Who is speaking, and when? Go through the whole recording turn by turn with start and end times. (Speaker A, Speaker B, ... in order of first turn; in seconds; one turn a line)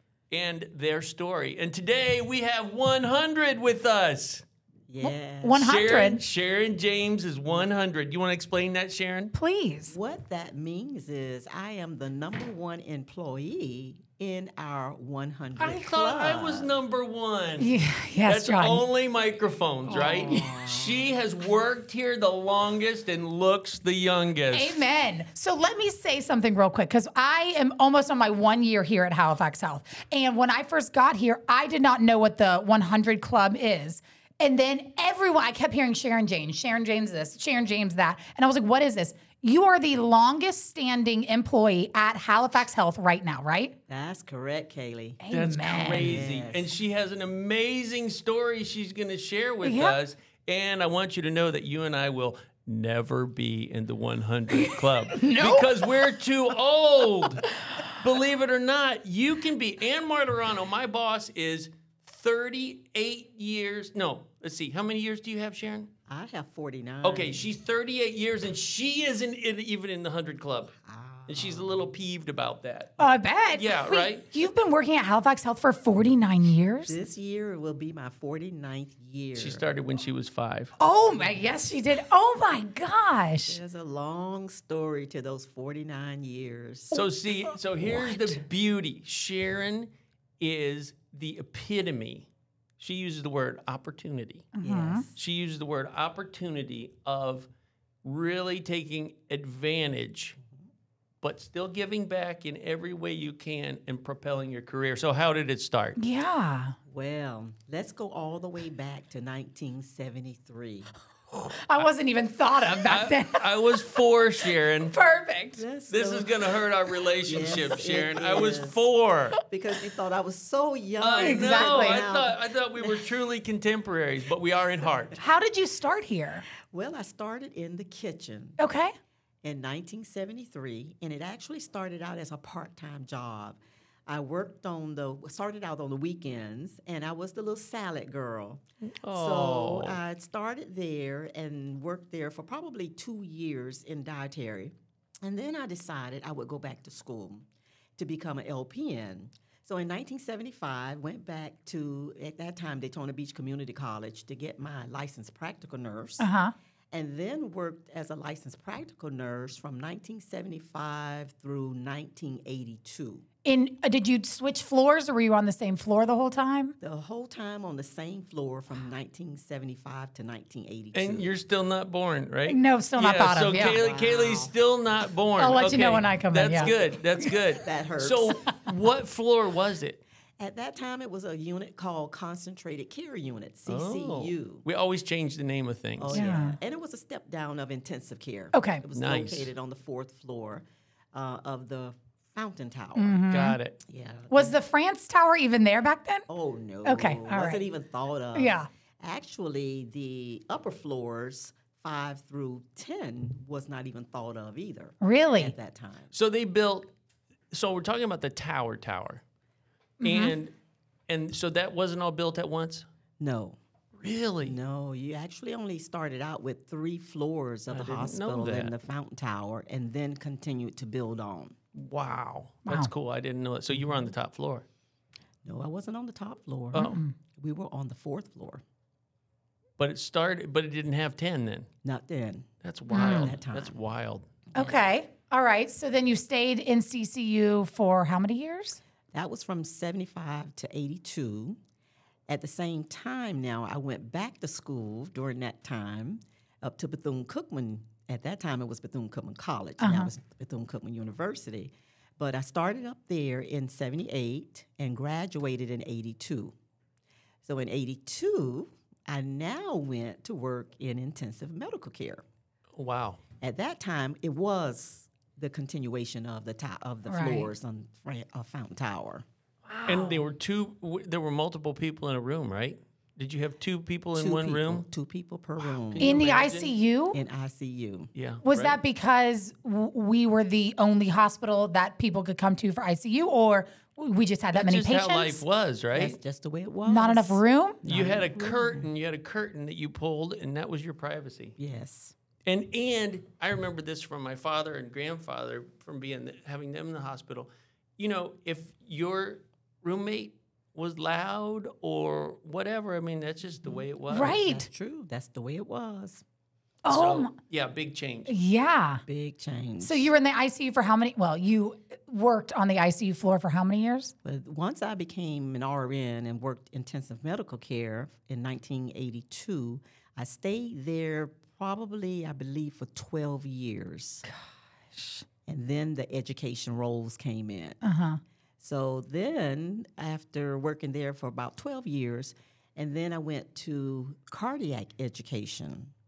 Speaker A: 0.3-4.5
Speaker B: 4.9-5.6
Speaker C: 5.0-6.2
Speaker A: 5.6-9.3
Speaker C: 9.3-10.0
Speaker B: 9.9-16.7
Speaker A: 15.6-17.7
Speaker C: 17.6-18.8
Speaker A: 18.2-24.8
Speaker B: 19.9-21.1
Speaker C: 19.9-20.4
Speaker C: 24.5-43.8
Speaker B: 43.9-45.2
Speaker C: 45.2-46.1
Speaker A: 45.3-65.9
Speaker B: 45.8-46.7
Speaker C: 49.6-50.0
Speaker C: 54.6-56.0
Speaker B: 66.1-67.5
Speaker A: 67.0-70.7
Speaker B: 70.8-71.8
Speaker A: 71.3-74.3
Speaker C: 73.0-77.0
Speaker B: 76.9-79.7
Speaker A: 79.3-80.7
Speaker C: 80.8-83.6
Speaker B: 83.5-87.0
Speaker A: 86.9-94.5
Speaker B: 87.8-88.4
Speaker C: 94.5-95.1
Speaker B: 94.6-95.1
Speaker A: 95.2-97.5
Speaker A: 98.0-100.4
Speaker A: 101.2-106.0
Speaker C: 106.0-106.8
Speaker B: 106.9-110.9
Speaker C: 111.7-114.0
Speaker A: 112.8-115.0
Speaker C: 114.9-115.6
Speaker B: 115.6-116.5
Speaker A: 115.9-119.4
Speaker B: 117.2-118.9
Speaker B: 119.5-123.1
Speaker A: 121.0-125.2
Speaker C: 121.2-122.0
Speaker C: 125.2-126.5
Speaker B: 126.6-128.6
Speaker C: 128.6-128.9
Speaker B: 129.4-147.5
Speaker A: 138.8-140.0
Speaker B: 148.0-156.3
Speaker C: 156.2-156.5
Speaker B: 156.9-163.2
Speaker C: 163.4-166.8
Speaker B: 166.8-171.3
Speaker A: 170.9-180.0
Speaker C: 172.5-173.8
Speaker B: 173.5-174.5
Speaker C: 175.4-176.7
Speaker B: 176.6-178.6
Speaker B: 180.4-184.7
Speaker A: 183.7-186.3
Speaker B: 186.0-193.2
Speaker C: 186.1-186.6
Speaker C: 188.5-188.8
Speaker A: 188.9-189.5
Speaker C: 193.0-193.6
Speaker A: 193.3-193.8
Speaker B: 193.8-194.6
Speaker C: 194.3-196.3
Speaker B: 196.3-206.1
Speaker C: 196.8-197.6
Speaker C: 198.4-198.7
Speaker C: 205.0-205.6
Speaker A: 206.1-206.9
Speaker A: 207.5-209.2
Speaker C: 210.0-210.3
Speaker A: 210.0-210.5
Speaker A: 211.1-212.9
Speaker B: 213.2-213.6
Speaker A: 213.9-214.6
Speaker B: 214.4-221.6
Speaker A: 217.7-218.7
Speaker A: 221.7-224.7
Speaker C: 222.7-222.9
Speaker B: 223.7-224.0
Speaker B: 225.4-228.6
Speaker A: 226.7-227.0
Speaker C: 226.7-227.1
Speaker A: 229.8-231.7
Speaker B: 231.8-233.8
Speaker A: 232.6-234.7
Speaker C: 232.9-233.3
Speaker C: 234.6-238.8
Speaker B: 239.1-241.6
Speaker B: 242.3-256.6
Speaker C: 249.8-250.1
Speaker B: 257.4-262.2
Speaker A: 262.8-263.2
Speaker B: 263.4-269.2
Speaker C: 267.1-267.5
Speaker C: 269.7-270.2
Speaker A: 269.9-274.9
Speaker B: 274.2-276.1
Speaker A: 275.8-276.7
Speaker C: 276.0-277.2
Speaker B: 277.1-278.1
Speaker A: 278.1-278.8
Speaker C: 278.4-285.4
Speaker A: 284.5-286.2
Speaker B: 285.9-288.9
Speaker C: 286.9-287.8
Speaker A: 287.9-291.6
Speaker B: 291.6-292.1
Speaker A: 292.4-304.4
Speaker B: 303.7-306.2
Speaker C: 304.1-304.7
Speaker C: 306.8-307.3
Speaker A: 306.9-308.3
Speaker C: 308.3-309.0
Speaker B: 309.1-310.1
Speaker C: 309.8-314.1
Speaker B: 314.2-324.3
Speaker C: 325.0-325.2
Speaker B: 325.5-327.8
Speaker C: 327.8-328.2
Speaker B: 328.6-335.9